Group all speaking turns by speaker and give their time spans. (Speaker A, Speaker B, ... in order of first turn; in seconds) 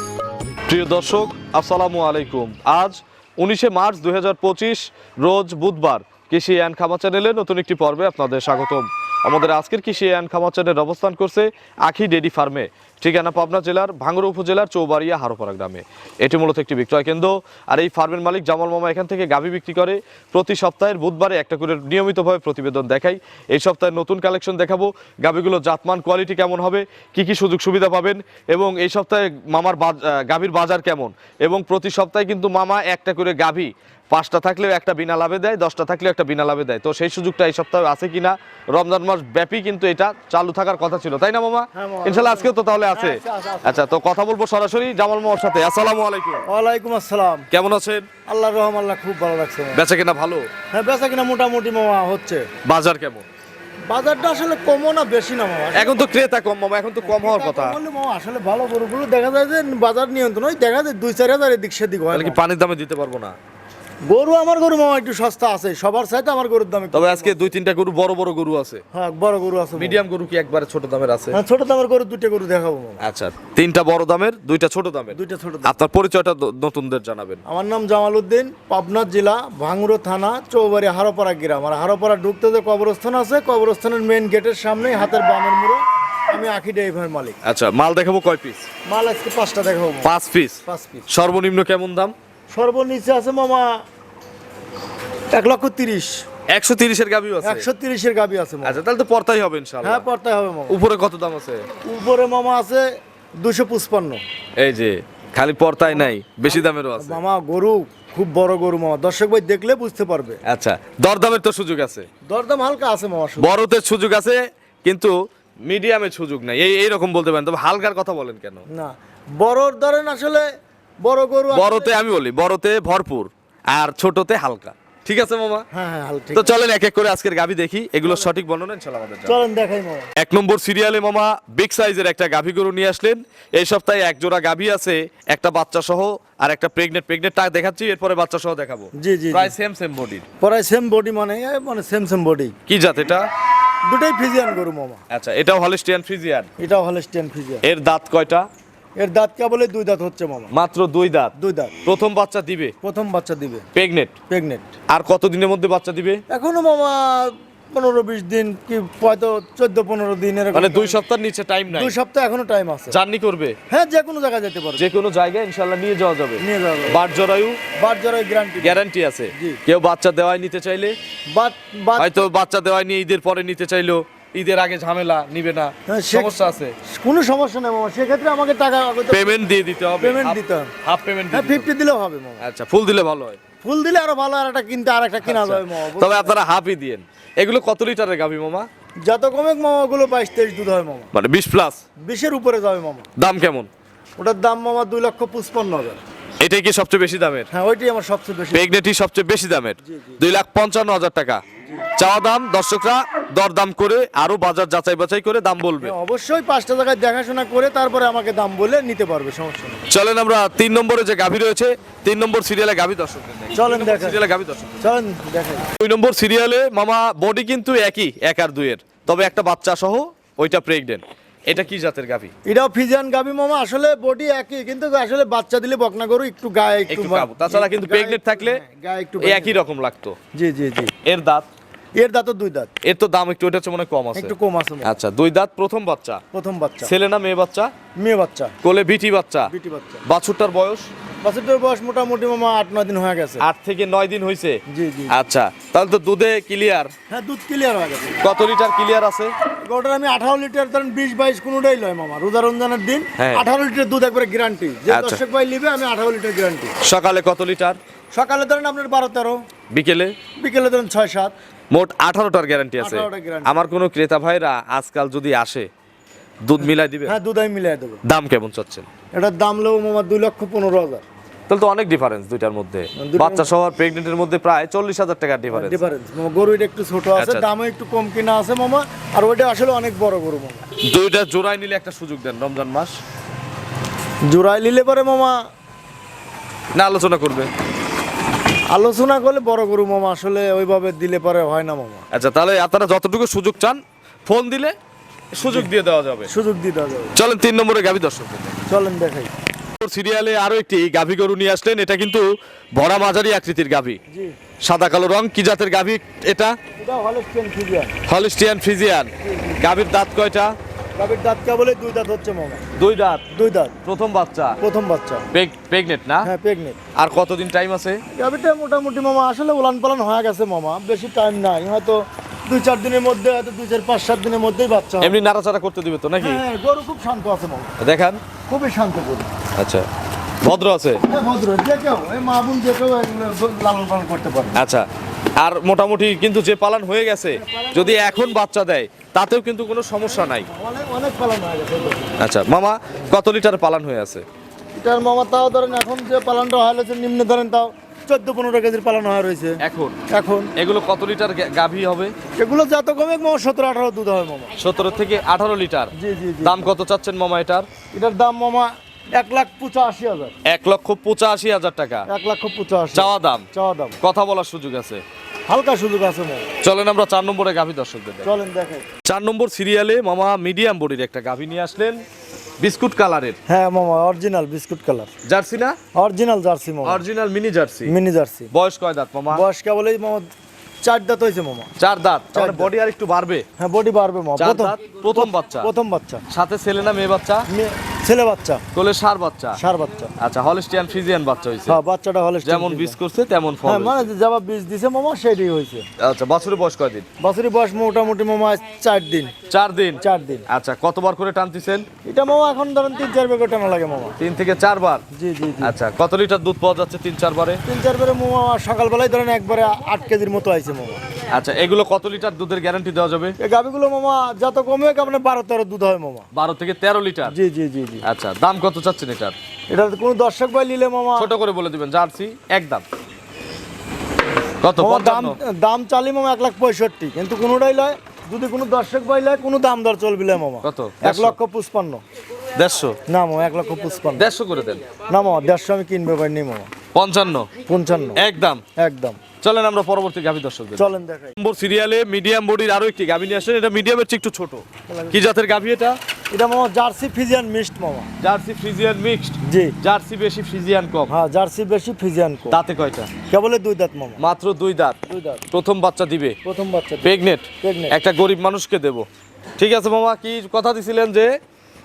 Speaker A: 0.7-46.4, 47.5-48.1, 49.7-50.5, 52.6-53.3, 55.7-57.8, 62.1-63.3, 66.9-68.8, 69.8-71.4, 73.0-77.4, 87.4-88.6, 90.0-92.1, 96.5-97.7, 98.6-100.0, 100.7-101.7, 104.6-107.2, 110.4-112.1, 113.4-115.1, 115.6-118.6, 121.5-125.7, 126.3-129.4, 130.2-140.2, 142.7-143.2, 145.1-146.5, 147.6-148.5, 150.5-151.3, 151.8-152.7, 153.7-154.1, 154.9-156.2, 160.5-161.9, 162.9-163.6, 164.8-167.6, 168.6-170.9, 172.0-176.7, 179.1-181.7, 182.4-183.4, 185.2-188.7, 191.1-191.8, 193.2-193.7, 196.4-197.5, 198.5-201.4, 201.9-205.9, 209.9-214.8, 215.8-222.3, 226.9-228.6, 229.2-230.2, 231.0-231.4, 232.8-236.2, 236.8-237.7, 238.6-239.5, 240.0-240.9, 243.4-244.6, 245.1-246.9, 248.2-249.3, 253.2-253.4, 254.9-255.2, 256.8-257.8, 259.7-260.1, 261.7-265.7, 266.4-267.1, 268.0-268.9, 271.5-275.8, 277.2-277.4, 280.8-283.0, 286.7-287.5, 292.1-294.7, 295.3-296.3, 297.1-298.6, 299.8-304.0, 304.6-306.6, 308.1-310.5, 312.8-313.2, 313.8-314.6, 315.3-316.3, 316.9-318.0, 325.0-326.4, 327.8-328.2, 329.6-329.9, 330.4-331.0, 334.6-334.9, 335.4-340.5, 342.2-344.2, 349.6-350.0, 350.6-352.1, 354.6-357.7, 360.4-362.1, 362.9-363.5, 364.0-365.0, 366.6-368.3, 369.0-372.0, 372.6-373.4, 375.2-375.8, 376.8-377.9, 378.5-379.4, 381.8-383.4, 384.4-385.7, 386.3-387.5, 388.7-389.6, 390.2-391.8, 392.4-394.1, 396.0-397.1, 399.5-401.9, 404.2-405.0, 405.6-407.6, 411.3-413.4, 416.3-417.3, 418.0-419.4, 421.1-422.8, 424.6-425.4, 430.6-431.4, 432.5-433.0, 434.2-434.8, 436.9-437.5, 438.1-438.6, 439.4-446.0, 448.2-451.1, 452.5-453.1, 454.2-455.0, 455.5-456.4, 457.0-459.1, 459.6-461.3
Speaker B: 41.7-43.8, 46.5-47.5, 48.2-49.8, 50.7-52.5, 53.9-56.1, 57.0-62.4, 64.1-67.5, 68.9-70.0, 71.3-73.0, 75.1-75.7, 77.5-87.4, 88.9-90.1, 90.7-91.1, 92.5-93.7, 95.3-96.2, 97.4-98.8, 99.8-100.8, 101.8-102.8, 103.4-104.2, 106.5-110.4, 112.2-113.6, 118.7-120.5, 121.0-121.9, 125.7-126.5, 129.2-130.1, 139.0-139.5, 140.4-142.5, 143.8-145.0, 146.6-147.6, 149.0-150.5, 151.4-151.8, 152.8-153.6, 154.3-154.7, 156.3-161.0, 161.7-163.0, 163.7-164.9, 166.4-167.0, 167.8-168.8, 169.3-169.6, 171.3-172.2, 175.9-179.3, 180.0-180.7, 181.3-182.4, 183.6-186.3, 189.0-191.1, 192.0-193.1, 194.2-196.0, 197.5-198.7, 199.8-200.2, 205.8-209.8, 213.5-214.2, 214.8-215.7, 222.4-229.6, 230.3-230.9, 232.0-232.7, 234.1-235.0, 236.3-236.9, 238.0-238.5, 239.5-240.0, 241.2-243.4, 244.7-245.1, 247.1-248.2, 249.6-256.7, 258.1-259.4, 260.4-261.3, 262.8-263.5, 267.1-268.0, 269.1-271.0, 273.0-273.5, 275.5-280.6, 284.3-285.3, 288.7-292.0, 295.4-295.7, 296.3-297.1, 298.7-299.3, 306.8-307.9, 309.2-309.6, 311.0-312.6, 313.3-313.8, 314.6-315.3, 316.2-316.8, 318.1-325.1, 326.2-327.8, 328.5-329.3, 331.1-334.6, 337.3-338.2, 340.2-342.1, 344.8-350.5, 352.4-354.5, 355.9-356.6, 357.9-360.3, 362.1-364.0, 365.5-366.5, 368.2-368.9, 373.5-375.1, 375.9-377.0, 377.9-378.5, 379.3-380.3, 380.8-381.7, 382.3-382.7, 383.6-386.2, 387.5-388.6, 389.6-390.1, 391.7-393.0, 393.6-395.9, 397.2-399.3, 400.0-400.4, 402.0-404.1, 405.1-405.7, 407.6-411.0, 413.4-416.2, 417.3-418.0, 419.7-421.3, 424.8-432.0, 433.1-434.3, 435.1-436.7, 437.6-438.2, 438.8-439.2, 440.8-441.4, 444.9-445.2, 446.3-448.1, 449.4-449.8, 451.1-452.6, 453.3-454.2, 455.1-455.4, 456.4-457.9